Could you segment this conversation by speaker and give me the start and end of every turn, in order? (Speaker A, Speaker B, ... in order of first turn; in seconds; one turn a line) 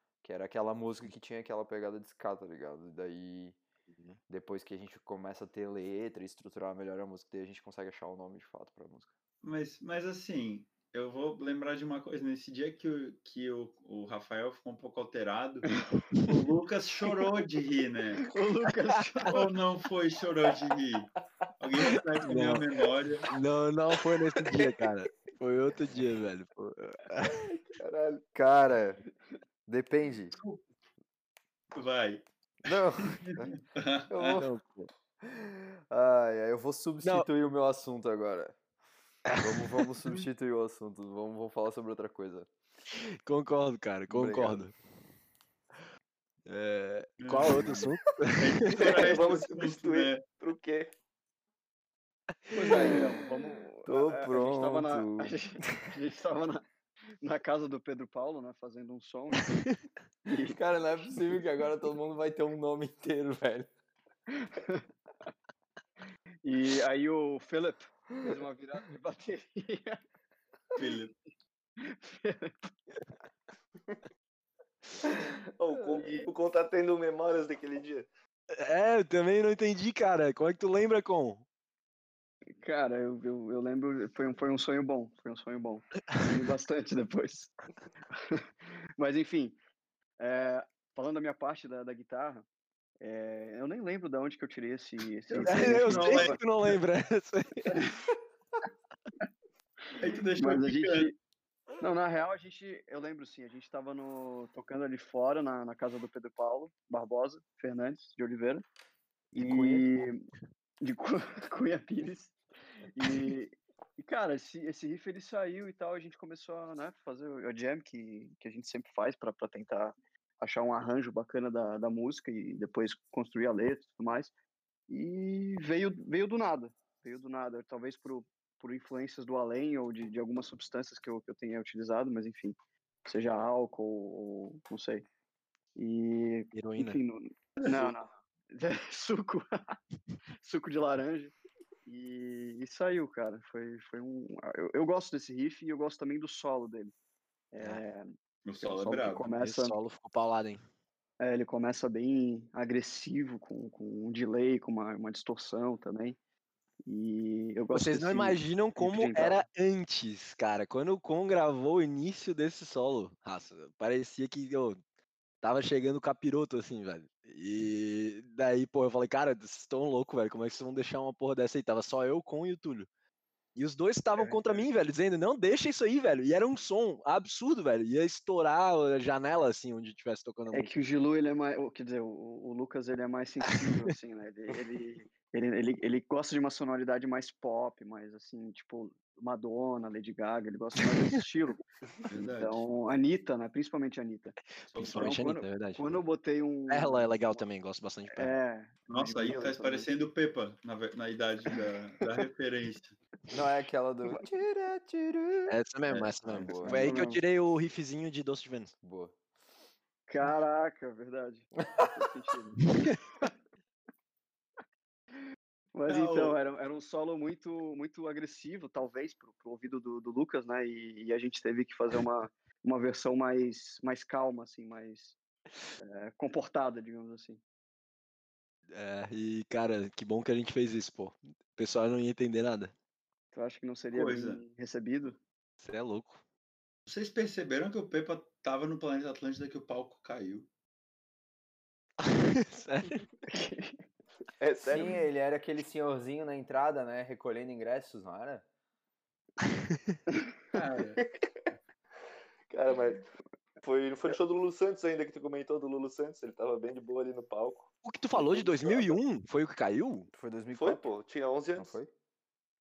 Speaker A: 0.2-3.6
Speaker B: 3.9-4.2
Speaker A: 4.3-9.1
Speaker C: 9.4-18.2
Speaker D: 18.3-19.4
Speaker C: 19.3-23.2
Speaker B: 22.2-22.6
Speaker B: 23.3-27.4
Speaker E: 27.3-28.2
Speaker A: 28.3-29.0
Speaker A: 29.6-30.3
Speaker C: 30.3-30.6
Speaker C: 31.7-32.2
Speaker A: 32.6-33.5
Speaker C: 33.2-34.4
Speaker A: 34.1-34.5
Speaker B: 34.4-34.9
Speaker A: 35.2-38.6
Speaker B: 39.3-40.0
Speaker A: 39.4-42.5
Speaker B: 42.9-44.7
Speaker A: 44.1-44.7
Speaker B: 46.5-49.0
Speaker C: 47.2-47.8
Speaker A: 47.6-48.0
Speaker C: 48.4-50.2
Speaker E: 48.8-50.9
Speaker D: 52.5-56.6
Speaker A: 52.6-53.0
Speaker A: 53.9-55.8
Speaker D: 57.2-59.5
Speaker B: 59.4-59.8
Speaker A: 60.3-63.7
Speaker D: 60.3-60.5
Speaker D: 64.4-64.8
Speaker D: 66.4-70.0
Speaker C: 70.8-71.1
Speaker D: 71.8-72.7
Speaker E: 75.5-78.1
Speaker B: 78.6-81.5
Speaker D: 82.6-87.5
Speaker D: 89.0-89.6
Speaker D: 90.2-92.5
Speaker D: 93.0-96.4
Speaker C: 95.4-96.8
Speaker B: 95.4-97.8
Speaker C: 100.0-101.1
Speaker D: 100.4-101.2
Speaker D: 101.8-108.6
Speaker D: 109.3-110.2
Speaker A: 109.3-109.9
Speaker D: 110.8-112.3
Speaker D: 112.9-124.3
Speaker D: 124.9-135.0
Speaker D: 135.7-139.4
Speaker B: 136.5-137.0
Speaker C: 137.6-137.9
Speaker D: 140.4-141.3
Speaker D: 141.8-146.9
Speaker D: 147.5-149.8
Speaker C: 148.4-149.3
Speaker B: 149.4-150.6
Speaker D: 151.2-156.2
Speaker D: 156.8-159.4
Speaker B: 157.7-164.8
Speaker B: 165.4-172.9
Speaker B: 173.6-180.7
Speaker C: 174.2-174.7
Speaker D: 180.5-197.3
Speaker B: 183.4-183.9
Speaker B: 190.8-191.2
Speaker C: 192.1-192.6
Speaker C: 194.7-195.1
Speaker B: 194.7-196.0
Speaker B: 196.7-198.3
Speaker D: 198.1-199.9
Speaker C: 198.9-202.9
Speaker A: 203.3-205.5
Speaker B: 205.5-208.7
Speaker C: 205.9-206.3
Speaker A: 206.3-206.8
Speaker D: 206.6-207.2
Speaker A: 208.8-209.2
Speaker D: 210.1-212.6
Speaker B: 212.6-213.0
Speaker D: 215.7-225.2
Speaker C: 215.9-216.3
Speaker D: 225.8-227.4
Speaker B: 228.7-232.7
Speaker D: 233.3-235.2
Speaker C: 233.9-234.4
Speaker B: 235.6-236.2
Speaker C: 236.9-240.5
Speaker B: 242.0-243.1
Speaker D: 243.3-243.8
Speaker E: 244.4-245.0
Speaker A: 244.6-248.4
Speaker B: 249.4-249.9
Speaker C: 250.5-251.0
Speaker E: 251.0-251.5
Speaker E: 252.5-253.1
Speaker E: 253.6-259.0
Speaker B: 257.8-260.1
Speaker A: 260.1-260.9
Speaker E: 260.5-261.8
Speaker A: 261.6-261.9